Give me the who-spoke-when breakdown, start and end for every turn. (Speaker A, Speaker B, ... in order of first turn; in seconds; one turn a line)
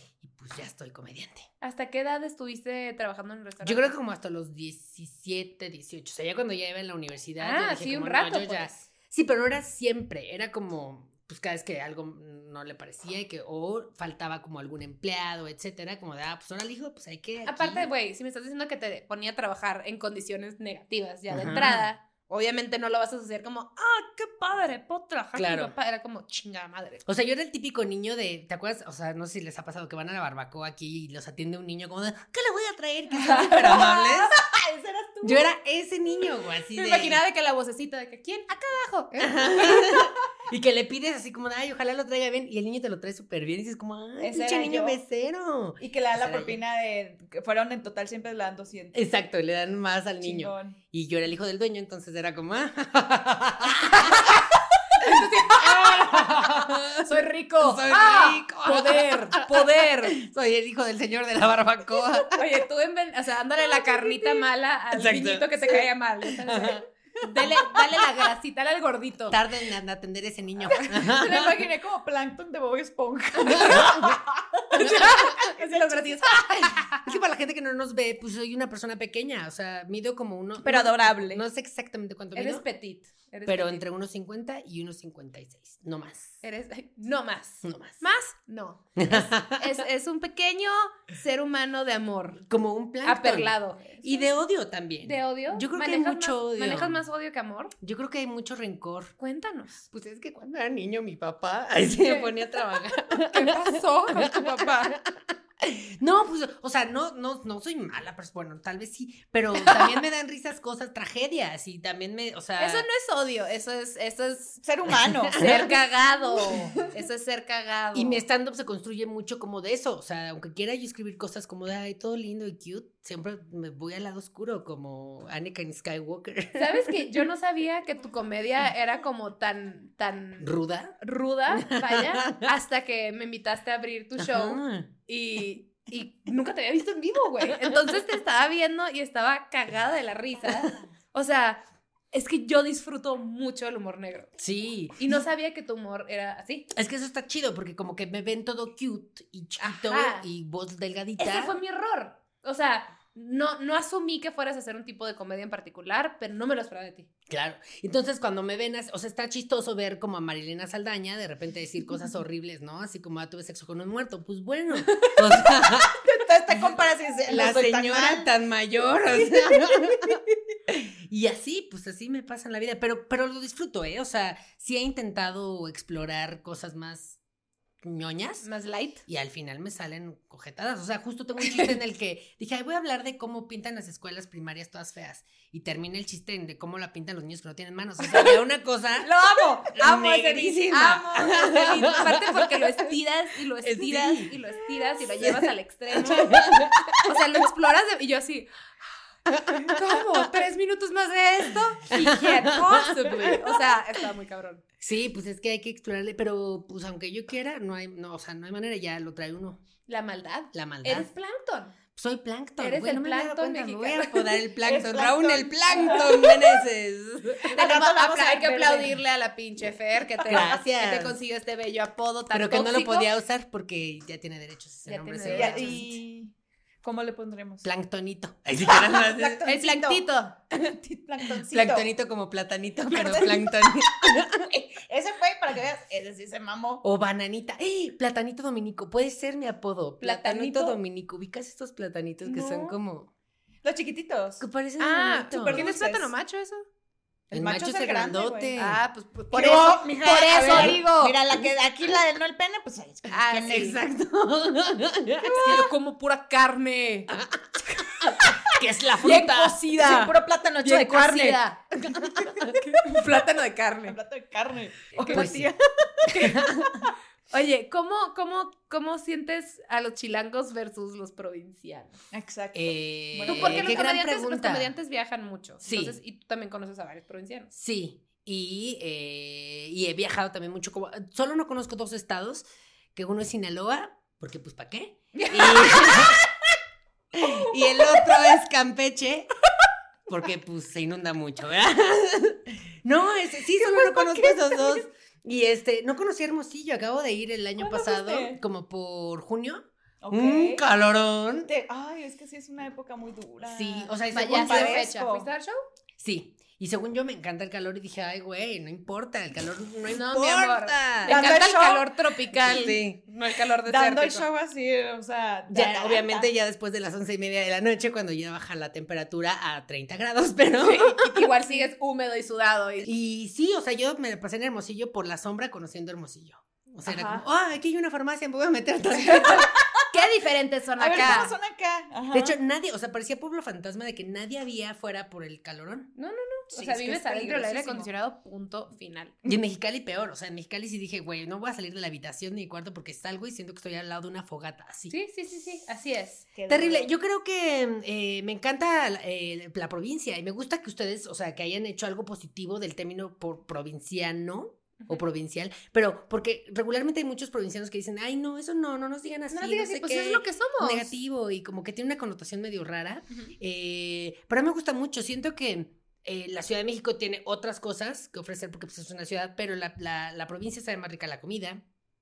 Speaker A: 0.2-1.5
Speaker B: 1.6-3.9
Speaker A: 3.6-17.9
Speaker B: 7.4-8.8
Speaker B: 17.4-27.0
Speaker A: 21.3-21.9
Speaker A: 25.3-25.7
Speaker A: 27.1-34.3
Speaker C: 33.3-35.5
Speaker B: 33.3-33.9
Speaker A: 35.2-37.2
Speaker B: 36.7-39.8
Speaker A: 39.2-46.6
Speaker C: 44.2-45.0
Speaker C: 45.8-49.0
Speaker A: 48.9-62.6
Speaker C: 50.2-50.8
Speaker B: 53.8-60.2
Speaker B: 62.2-69.4
Speaker C: 63.7-64.4
Speaker A: 64.9-67.6
Speaker A: 69.3-71.6
Speaker C: 70.7-76.7
Speaker A: 73.5-74.2
Speaker B: 73.5-73.8
Speaker B: 74.7-77.1
Speaker A: 74.8-75.3
Speaker A: 77.0-82.6
Speaker C: 80.6-81.4
Speaker B: 82.3-83.8
Speaker A: 83.5-86.4
Speaker B: 86.4-92.4
Speaker A: 87.6-88.0
Speaker A: 89.0-89.8
Speaker A: 92.5-97.0
Speaker B: 93.0-94.3
Speaker B: 95.0-97.7
Speaker A: 97.8-99.1
Speaker B: 99.2-99.8
Speaker A: 99.9-112.9
Speaker B: 101.8-102.5
Speaker B: 103.1-105.0
Speaker B: 109.6-110.0
Speaker B: 112.6-114.6
Speaker C: 114.6-115.4
Speaker A: 115.2-115.7
Speaker B: 115.3-118.2
Speaker A: 117.9-127.1
Speaker B: 126.5-144.3
Speaker A: 130.4-130.9
Speaker A: 131.5-132.5
Speaker A: 134.2-134.9
Speaker A: 137.5-137.8
Speaker A: 144.4-145.2
Speaker B: 145.0-146.7
Speaker A: 146.7-151.6
Speaker B: 149.6-150.2
Speaker B: 151.2-157.1
Speaker A: 157.3-177.2
Speaker B: 164.8-165.2
Speaker C: 165.8-168.3
Speaker C: 169.3-170.2
Speaker A: 177.8-178.5
Speaker B: 178.4-179.0
Speaker A: 179.1-189.1
Speaker B: 181.4-181.7
Speaker B: 188.0-188.4
Speaker B: 189.0-198.5
Speaker A: 189.7-192.9
Speaker A: 193.6-194.4
Speaker A: 195.0-197.2
Speaker A: 199.3-200.3
Speaker B: 199.6-204.6
Speaker A: 201.9-203.8
Speaker A: 204.8-209.6
Speaker B: 209.9-211.8
Speaker A: 210.5-211.1
Speaker A: 211.9-217.6
Speaker B: 212.6-214.4
Speaker C: 214.6-216.6
Speaker C: 217.4-219.0
Speaker B: 217.5-223.1
Speaker A: 220.2-221.2
Speaker A: 222.3-225.9
Speaker B: 224.8-225.9
Speaker C: 225.2-227.7
Speaker A: 227.6-229.4
Speaker C: 228.6-231.9
Speaker B: 229.4-230.3
Speaker A: 231.5-234.5
Speaker C: 232.9-236.8
Speaker A: 236.8-243.1
Speaker B: 240.0-240.8
Speaker B: 242.2-242.8
Speaker C: 243.6-244.4
Speaker A: 244.4-245.7
Speaker B: 244.8-246.6
Speaker C: 245.3-246.1
Speaker C: 247.3-248.6
Speaker A: 247.3-248.8
Speaker B: 248.6-251.1
Speaker C: 249.3-253.7
Speaker A: 250.5-250.8
Speaker B: 253.1-253.8
Speaker A: 253.4-255.7
Speaker C: 255.2-255.6
Speaker B: 255.2-257.1
Speaker A: 257.1-259.6
Speaker B: 257.8-258.3
Speaker B: 259.0-261.6
Speaker C: 259.6-263.0
Speaker A: 261.8-262.6
Speaker B: 262.4-264.0
Speaker C: 263.9-266.9
Speaker B: 265.0-265.3
Speaker A: 265.1-265.5
Speaker A: 266.1-266.7
Speaker B: 267.3-272.0
Speaker C: 272.1-273.9
Speaker A: 272.5-274.7
Speaker B: 273.3-277.5
Speaker A: 275.6-276.0
Speaker A: 277.5-286.2
Speaker B: 285.1-286.0
Speaker C: 285.4-285.9
Speaker A: 287.1-289.3
Speaker A: 290.1-299.6
Speaker B: 293.6-294.8
Speaker C: 297.6-298.4
Speaker C: 300.0-300.6
Speaker A: 300.1-301.5
Speaker C: 301.4-305.3
Speaker A: 303.4-304.9
Speaker B: 304.1-305.6
Speaker A: 306.0-311.4
Speaker B: 309.9-314.2
Speaker C: 311.1-311.9
Speaker A: 312.4-313.0
Speaker C: 313.6-316.3
Speaker A: 315.5-321.3
Speaker B: 320.6-322.9
Speaker A: 322.8-329.5
Speaker C: 326.8-327.2
Speaker B: 329.0-331.3
Speaker C: 329.4-329.8
Speaker C: 330.8-332.3
Speaker A: 332.1-335.9
Speaker B: 335.9-339.1
Speaker C: 336.5-337.9
Speaker A: 339.2-344.9
Speaker B: 344.9-346.2
Speaker C: 346.3-346.9
Speaker A: 346.5-371.6
Speaker B: 359.3-360.9